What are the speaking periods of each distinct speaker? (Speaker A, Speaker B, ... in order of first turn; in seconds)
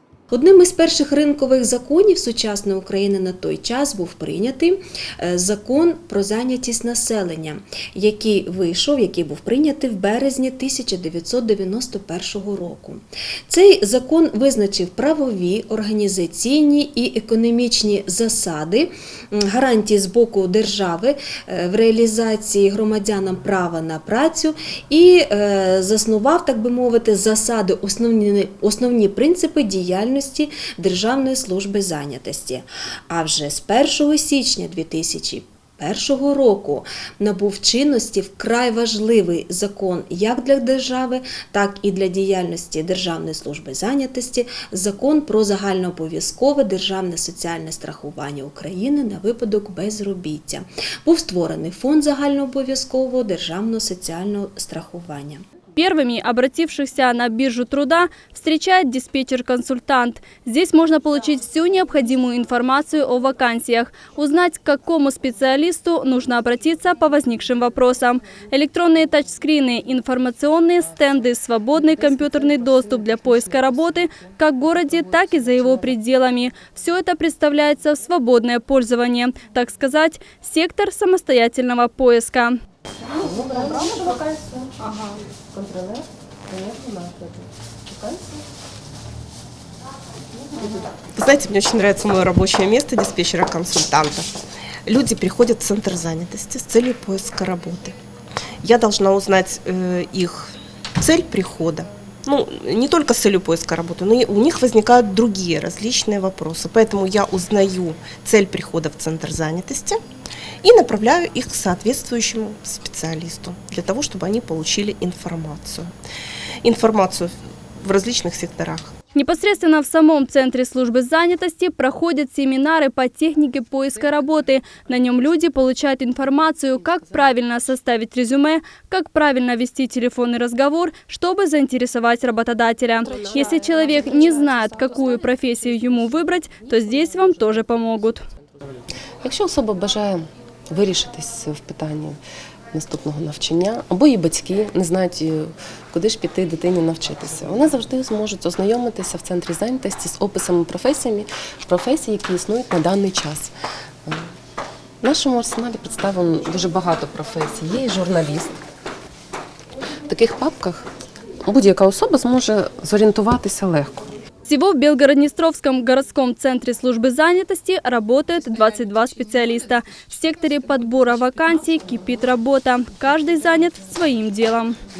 Speaker A: 0.3-55.4
Speaker B: 55.8-82.6, 119.1-138.2, 164.4-174.8
Speaker C: 83.2-84.8, 85.5-88.4, 90.4-90.8, 133.2-133.7, 139.2-142.2, 142.7-153.5, 155.0-158.6, 160.1-160.9, 161.5-164.1
Speaker D: 91.1-94.3, 94.8-98.0, 98.6-110.0, 110.6-115.9, 116.6-118.9